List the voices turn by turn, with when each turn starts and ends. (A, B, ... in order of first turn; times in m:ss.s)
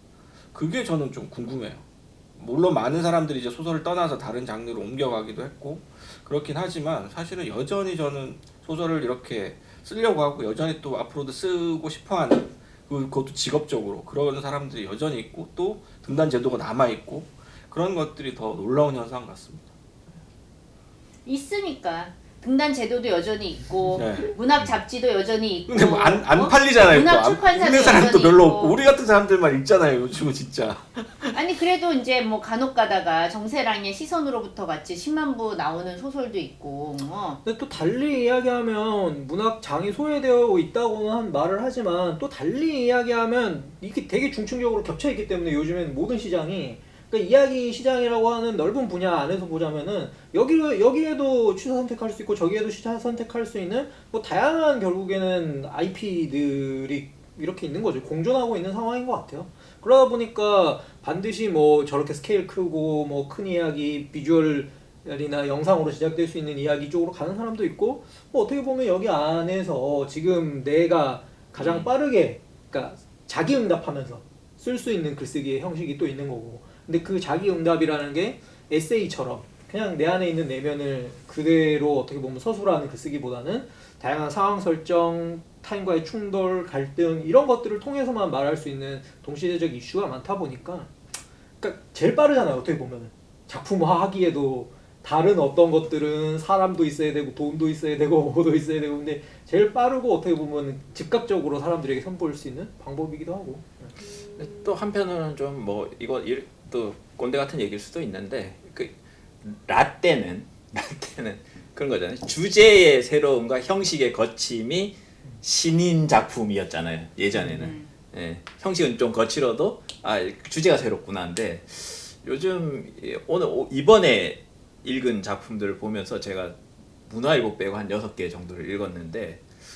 0:00.5-0:01.8 A
0:02.4-0:19.7 A
0:21.2-0:28.8 B
0:23.9-0:24.3 A
0:25.7-0:31.4 A
0:31.3-0:37.4 B
0:37.4-1:30.9 C
1:11.6-1:11.9 A
1:31.6-1:43.9 C
1:44.4-2:09.4 D